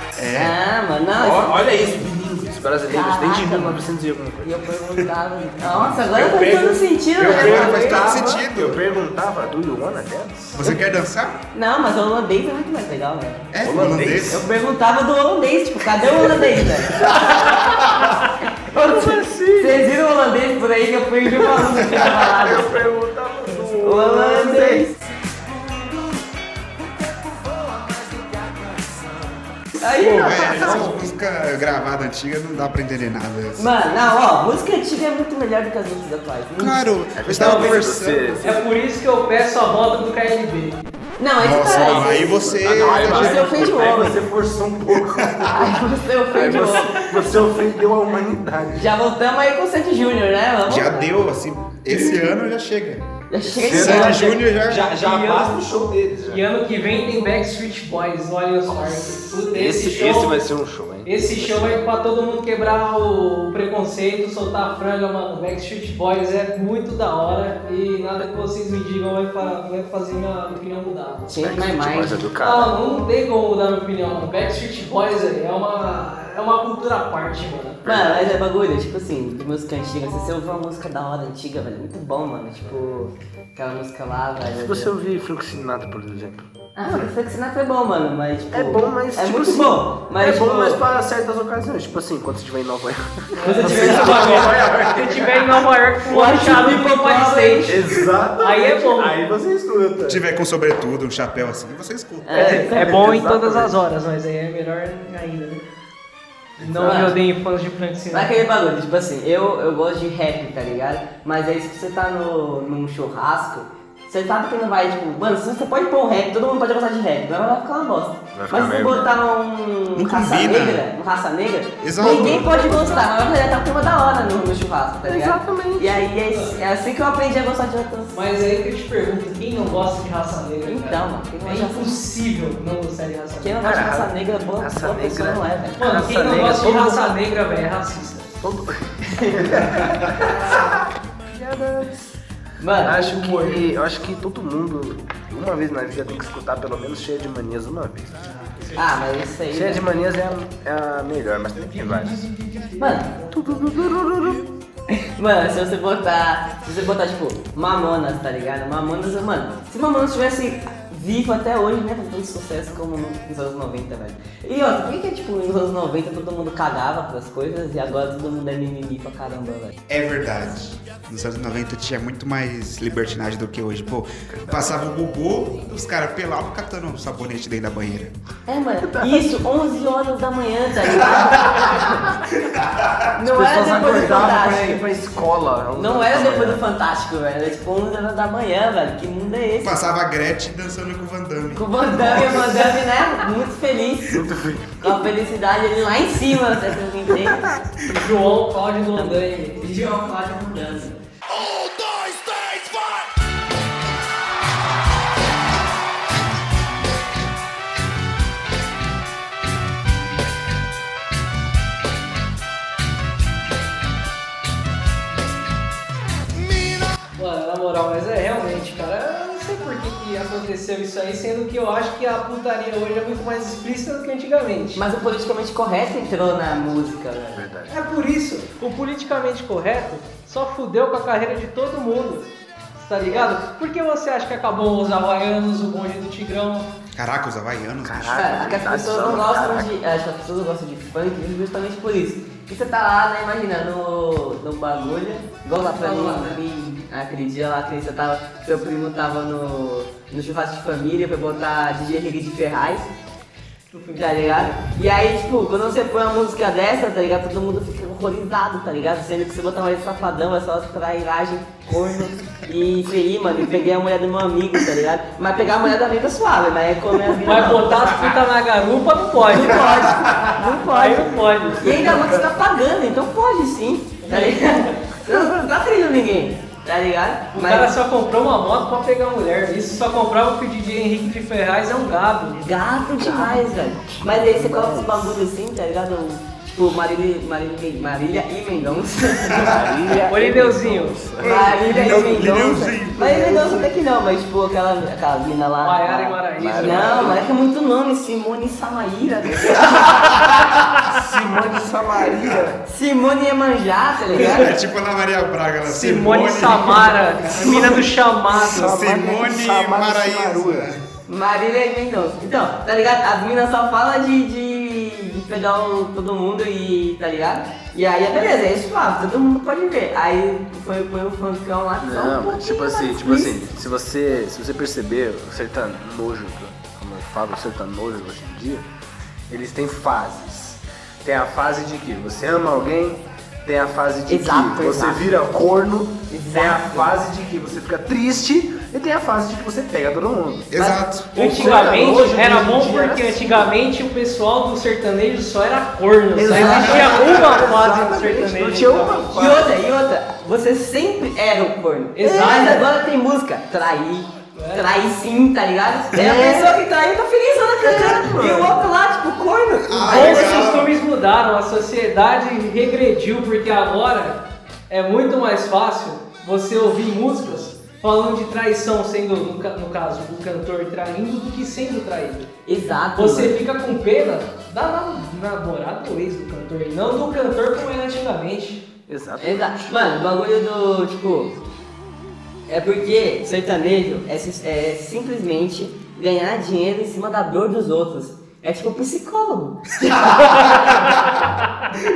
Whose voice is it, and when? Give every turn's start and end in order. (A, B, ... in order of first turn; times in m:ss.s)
0:00.2-0:00.6 A
0:00.3-0:02.0 B
0:01.2-0:05.1 C
0:02.9-0:03.8 B
0:04.4-0:08.4 B
0:05.6-0:10.8 C
0:07.2-0:08.8 A
0:10.6-0:11.4 A
0:11.5-0:13.5 B
0:13.5-0:14.5 A
0:13.6-0:14.4 C
0:14.3-0:17.5 B
0:16.9-0:17.9 C
0:17.1-0:18.1 A
0:18.6-0:22.8 B
0:18.7-0:19.9 C
0:21.3-0:24.8 C
0:23.8-0:25.0 B
0:25.1-0:29.4 D
0:29.8-0:31.0 B
0:29.8-0:31.0 C
0:30.2-0:33.7 A
0:33.6-0:36.9 B
0:36.6-0:38.4 A
0:37.2-0:38.7 C
0:37.4-0:37.8 E
0:38.4-0:40.8 E
0:41.2-0:44.2 B
0:41.4-0:43.5 A
0:41.7-0:48.9 C
0:44.9-0:45.7 A
0:45.5-0:47.5 B
0:48.8-0:51.1 B
0:50.7-0:53.1 A
0:51.9-0:52.3 C
0:53.3-0:54.3 B
0:53.5-0:56.4 C
0:53.6-0:54.9 A
0:55.0-0:55.6 E
0:56.3-1:00.4 E
0:58.7-1:01.8 C
1:01.0-1:11.3 E
1:11.3-1:12.2 B
1:11.4-1:12.7 C
1:12.4-1:17.8 E
1:17.8-1:18.3 C
1:17.8-1:24.9 B
1:24.6-1:27.1 C
1:26.8-1:30.8 B
1:28.5-1:35.7 C
1:33.4-1:37.8 E
1:33.4-1:34.6 B
1:36.0-1:37.9 B
1:37.7-1:40.2 C
1:38.4-1:39.2 E
1:40.1-1:42.5 A
1:42.2-1:43.0 B
1:42.3-1:43.8 C
1:42.4-1:45.6 E
1:46.6-1:48.4 E
1:46.6-1:47.1 C
1:46.8-1:47.2 B
1:48.1-2:08.1 B
1:58.3-1:59.1 C
2:00.0-2:00.9 A
2:01.8-2:03.0 A
2:02.1-2:02.4 C
2:05.0-2:06.1 C
2:06.3-2:06.6 E
2:08.1-2:13.6 E
2:10.7-2:11.9 B
2:13.4-2:16.1 B
2:13.6-2:17.0 C
2:15.8-2:18.3 E
2:18.4-2:22.0 C
2:19.1-2:20.0 B
2:22.6-2:23.1 B
2:22.8-2:28.3 C
2:23.0-2:23.6 E
2:28.8-2:29.9 B
2:29.5-2:32.3 C
2:31.8-2:33.2 E
2:32.8-2:33.1 B
2:33.2-2:34.5 C
2:35.0-2:49.7 B
2:49.9-2:58.1 A
2:54.3-2:54.7 C
2:58.5-3:02.2 B
2:58.8-2:59.3 C
3:02.6-3:03.1 A
3:03.2-3:04.8 B
3:03.2-3:06.6 C
3:05.8-3:09.7 B
3:09.6-3:12.7 A
3:11.5-3:14.2 B
3:14.1-3:15.0 C
3:14.8-3:17.6 B
3:17.8-3:19.8 E
3:19.0-3:21.0 B
3:21.8-3:22.8 C
3:37.2-3:44.8 E
3:44.8-3:47.5 B
3:47.4-3:47.7 C
3:47.7-3:56.7 E
3:53.1-3:53.3 B
3:57.0-3:58.6 A
3:57.8-3:59.7 C
3:58.2-4:12.9 B
4:05.6-4:06.4 E
4:13.7-4:14.6 E
4:13.9-4:28.0 B
4:27.2-4:29.9 E
4:29.2-4:37.7 B
4:30.6-4:32.0 E
4:34.0-4:34.8 E
4:35.1-4:35.4 C
4:37.3-4:42.5 E
4:42.4-4:50.0 B
4:43.0-4:45.2 C
4:49.4-4:52.2 C
4:50.1-4:51.0 E
4:51.2-5:00.6 B
4:51.2-4:53.7 A
4:55.6-4:57.2 E
4:56.4-4:57.3 C
4:59.4-5:00.1 C
5:00.8-5:02.6 C
5:02.6-5:04.6 B
5:04.2-5:07.9 A
5:05.6-5:08.8 E
5:07.4-5:10.7 C
5:08.6-5:10.8 A
5:11.1-5:23.4 B
5:21.8-5:28.7 C
5:29.3-5:40.5 C
5:34.1-5:35.1 B
5:36.1-5:36.9 B
5:40.5-5:41.1 A
5:40.6-5:41.7 B
5:41.2-5:43.5 C
5:41.2-5:49.2 E
5:46.2-5:49.5 C
5:46.3-5:47.2 B
5:49.1-6:00.4 B
5:52.0-5:52.7 E
5:54.4-5:54.7 E
5:56.0-5:56.6 C
5:57.6-5:58.6 C
5:59.6-6:00.7 A
5:59.9-6:12.3 E
6:12.5-6:13.4 B
6:13.0-6:18.6 E
6:18.9-6:19.7 C
6:19.2-6:21.4 B
6:22.5-6:30.8 B
6:30.2-6:30.8 A
6:30.4-6:30.7 E